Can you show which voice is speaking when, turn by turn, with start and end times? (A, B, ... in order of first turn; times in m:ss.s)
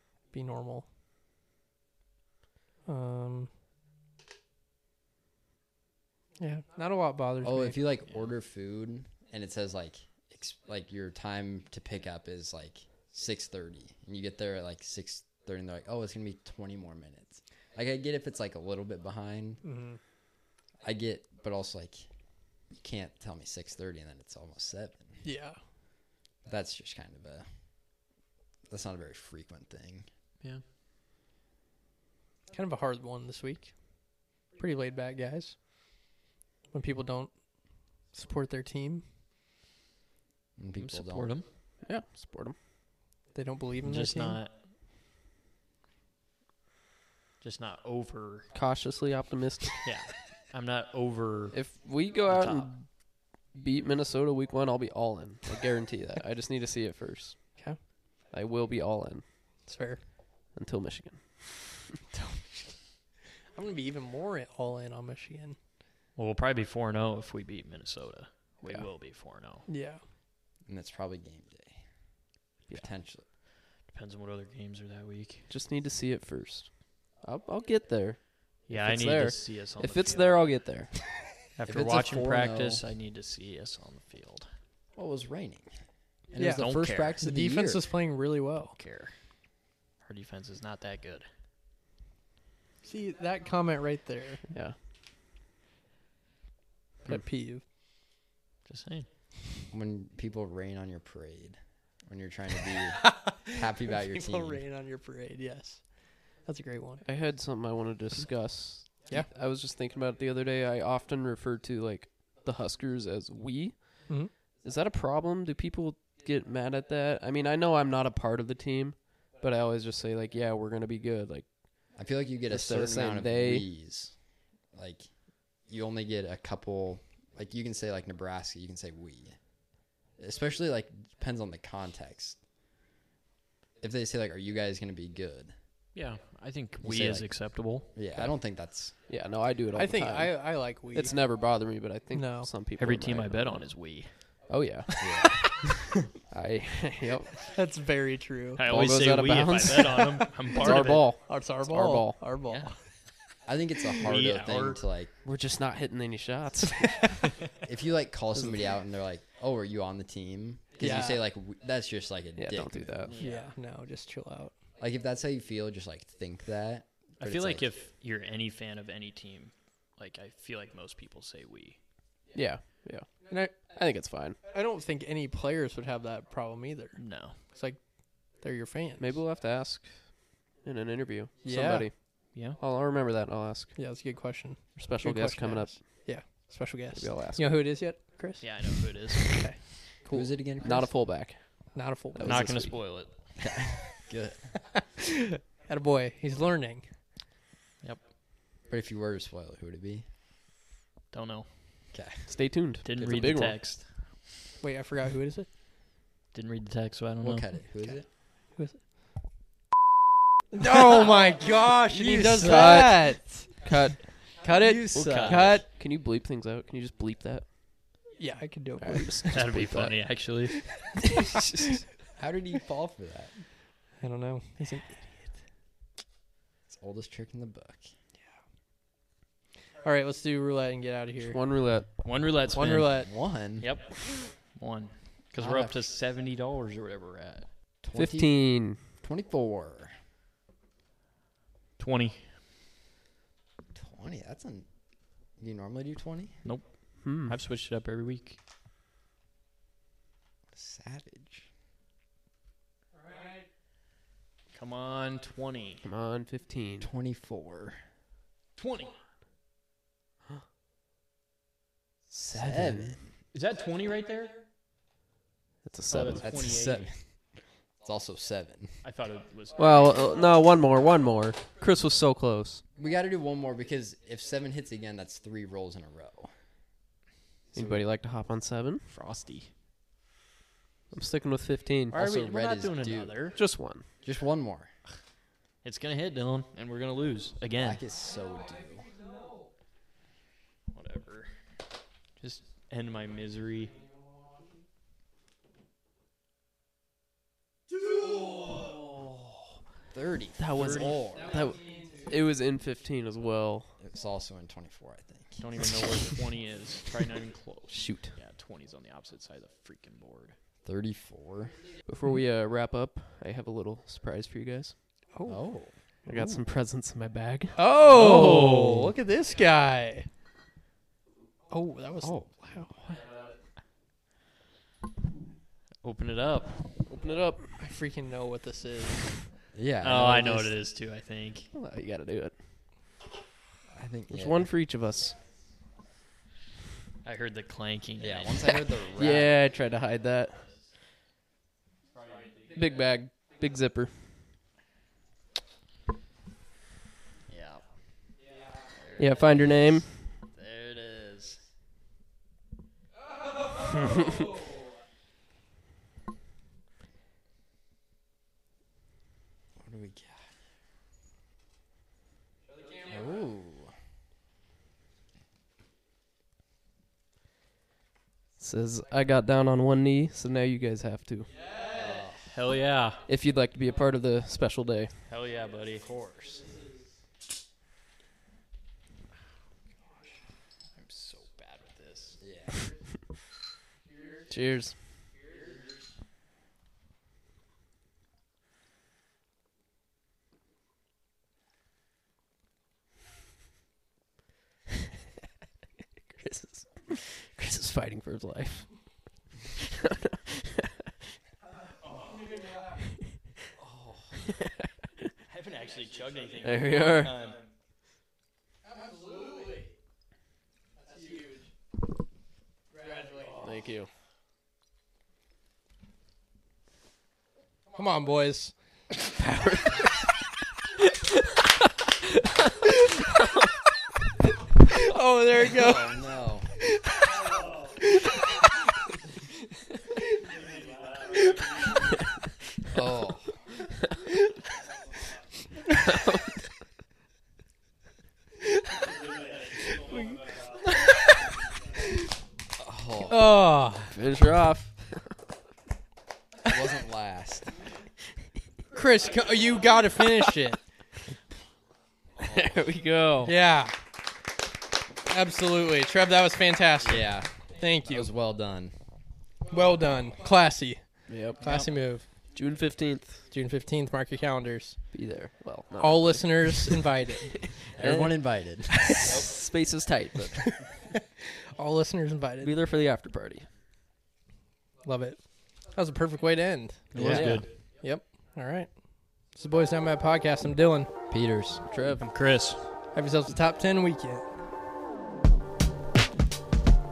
0:00.3-0:00.9 A
0:02.9-0:03.5 A
0:06.4-0:07.8 A
0:07.4-0:19.6 B
0:19.6-0:20.0 A
0:20.8-0:22.1 B
0:22.7-0:25.2 B
0:25.2-0:25.6 A
0:26.4-0:27.5 B
0:28.7-0:30.1 B
0:32.5-0:36.1 A
0:36.7-0:39.0 A
0:40.6-0:41.4 B
0:40.8-0:41.5 C
0:41.8-0:42.6 D
0:43.3-0:44.4 A
0:43.8-0:44.6 C
0:47.4-0:48.5 C
0:48.5-0:49.9 D
0:49.8-0:52.8 C
0:51.5-0:52.9 D
0:53.5-0:57.7 D
0:57.6-0:57.8 A
0:58.3-0:59.7 D
0:59.6-1:00.0 A
1:00.5-1:01.8 D
1:02.1-1:02.4 A
1:03.5-1:05.6 A
1:06.2-1:09.7 C
1:09.7-1:10.0 A
1:10.7-1:11.8 B
1:12.7-1:13.2 B
1:13.9-1:15.5 C
1:15.5-1:21.0 D
1:18.7-1:20.7 C
1:21.6-1:24.5 C
1:21.6-1:22.8 B
1:25.0-1:25.7 B
1:26.3-1:27.8 B
1:26.4-1:28.8 A
1:26.4-1:27.2 C
1:28.8-1:29.2 C
1:30.0-1:31.3 C
1:32.8-1:34.4 A
1:34.5-1:34.8 D
1:37.0-1:37.6 A
1:38.7-1:39.1 C
1:39.7-1:44.6 B
1:43.0-1:47.0 A
1:47.0-2:03.7 D
1:54.1-1:54.3 A
2:02.0-2:04.2 B
2:04.7-2:09.4 B
2:10.2-2:12.4 B
2:13.8-2:15.5 B
2:15.9-2:18.2 C
2:16.8-2:19.0 B
2:19.1-2:23.7 D
2:19.7-2:21.1 A
2:22.1-2:22.7 A
2:22.7-2:24.4 C
2:24.5-2:25.2 D
2:25.0-2:25.6 B
2:26.3-2:27.5 D
2:27.4-2:28.6 A
2:28.6-2:31.3 C
2:28.6-2:32.3 D
2:30.5-2:32.8 A
2:32.4-2:32.7 C
2:33.4-2:35.1 B
2:34.0-2:34.8 C
2:35.2-2:37.2 D
2:36.8-2:37.2 A
2:37.6-2:43.1 B
2:38.3-2:38.6 D
2:40.8-2:41.2 A
2:42.4-2:43.2 D
2:43.1-2:43.5 C
2:43.2-2:44.6 A
2:44.8-2:47.7 B
2:47.2-2:51.8 C
2:52.3-2:54.4 D
2:53.2-2:53.7 A
2:54.5-2:59.2 A
2:57.0-2:57.4 C
2:59.0-3:03.8 D
3:01.4-3:02.0 A
3:02.3-3:02.6 C
3:03.7-3:09.9 A
3:04.7-3:06.0 D
3:06.9-3:08.0 D
3:08.4-3:09.7 C
3:10.1-3:10.9 B
3:10.1-3:12.8 D
3:11.7-3:12.6 A
3:12.2-3:13.1 C
3:13.4-3:14.5 B
3:15.6-3:17.0 A
3:18.7-3:20.0 B
3:21.1-3:21.5 C
3:21.9-3:22.3 B
3:22.3-3:23.6 D
3:22.8-3:24.3 C
3:24.6-3:25.5 A
3:26.3-3:27.5 C
3:27.2-3:28.0 B
3:28.6-3:28.8 A
3:30.5-3:33.7 A
3:31.9-3:37.5 D
3:34.2-3:35.7 A
3:34.9-3:35.6 C
3:38.1-3:39.5 A
3:38.8-3:40.0 D
3:39.3-3:40.9 C
3:40.6-3:41.2 A
3:41.4-3:41.7 D
3:42.2-3:43.4 B
3:44.0-3:45.4 A
3:46.7-3:47.9 B
3:49.8-3:51.7 A
3:51.2-3:52.2 D
3:52.0-3:57.5 C
3:52.5-3:53.1 A
3:52.8-3:53.7 B
3:55.4-3:55.8 B
3:57.8-4:00.0 B
3:57.9-3:58.8 D
4:01.8-4:02.3 C
4:03.7-4:04.7 B
4:05.4-4:06.3 B
4:06.4-4:08.4 C
4:07.0-4:07.4 D
4:10.5-4:11.5 B
4:13.1-4:13.4 A
4:14.5-4:15.9 C
4:15.8-4:16.9 D
4:16.8-4:17.8 B
4:18.6-4:19.0 C
4:22.1-4:23.0 D
4:22.3-4:23.1 B
4:23.3-4:24.4 C
4:25.7-4:26.3 D
4:25.9-4:26.9 C
4:26.1-4:27.1 B
4:27.8-4:28.8 B
4:28.8-4:30.0 C
4:29.6-4:32.6 D
4:32.8-4:36.3 B
4:37.5-4:37.8 B
4:37.5-4:38.9 D
4:38.9-4:39.5 C
4:40.9-4:42.0 D
4:41.9-4:43.3 B
4:41.9-4:43.4 C
4:43.3-4:43.9 D
4:44.0-4:44.7 B
4:45.6-4:47.8 C
4:47.6-4:48.9 B
4:50.7-4:51.3 C
4:52.2-4:53.8 C
4:59.9-5:01.3 B
5:00.4-5:03.7 D
5:00.6-5:01.2 C
5:01.6-5:02.0 A
5:03.8-5:05.4 B
5:05.4-5:10.4 C
5:07.7-5:08.2 D
5:10.6-5:11.6 B
5:11.9-5:14.8 D
5:15.1-5:15.5 A
5:15.3-5:15.7 B
5:16.0-5:18.9 D
5:17.6-5:20.1 A
5:21.5-5:22.8 A
5:22.0-5:22.4 B
5:25.8-5:26.9 C
5:26.9-5:27.6 D
5:27.6-5:29.2 A
5:29.5-5:30.6 B
5:29.8-5:31.5 C
5:31.5-5:32.4 D
5:33.7-5:34.5 B
5:34.1-5:35.2 D
5:37.0-5:39.3 C
5:38.0-5:39.3 B
5:39.0-5:40.4 D
5:41.9-5:42.8 C
5:42.5-5:44.0 D
5:47.3-5:47.6 C
5:48.7-5:51.4 C
5:49.0-5:50.1 D
5:59.6-6:00.3 B
6:02.9-6:03.7 B
6:08.4-6:11.3 D
6:11.7-6:12.3 B
6:12.3-6:13.0 C
6:13.0-6:15.0 D
6:15.1-6:16.4 C
6:20.7-6:22.2 C
6:22.2-6:22.6 B
6:24.3-6:24.8 D
6:36.1-6:38.9 D
6:39.7-6:40.5 D
6:41.8-6:42.3 C
6:43.6-6:44.2 B
6:45.3-6:47.5 C
6:46.4-6:47.3 D
6:48.6-6:49.7 A
6:50.8-6:51.5 A
6:52.7-6:53.5 A
6:53.4-6:53.9 D
6:57.7-6:58.5 A
6:59.0-7:00.1 D
7:04.7-7:06.0 A
7:05.4-7:06.5 B
7:10.3-7:11.8 C
7:12.7-7:13.4 B
7:18.9-7:20.6 C
7:22.6-7:23.3 B
7:23.0-7:24.0 A
7:23.9-7:25.1 D
7:26.4-7:27.6 B
7:28.7-7:30.6 A
7:32.2-7:32.6 B
7:32.3-7:33.4 D
7:33.3-7:33.7 A
7:35.0-7:38.1 A
7:36.8-7:38.7 B
7:39.5-7:42.3 A
7:41.1-7:41.6 D
7:42.2-7:43.3 D
7:43.3-7:44.9 A
7:44.9-7:50.4 D
7:45.8-7:47.3 A
7:47.7-7:49.3 B
7:51.6-7:52.6 A
7:52.4-7:53.5 D
7:54.8-8:00.9 A
7:56.9-7:57.5 C
7:57.0-7:57.7 D
8:01.1-8:01.6 B
8:01.7-8:02.0 D
8:01.8-8:02.6 C
8:02.9-8:04.3 A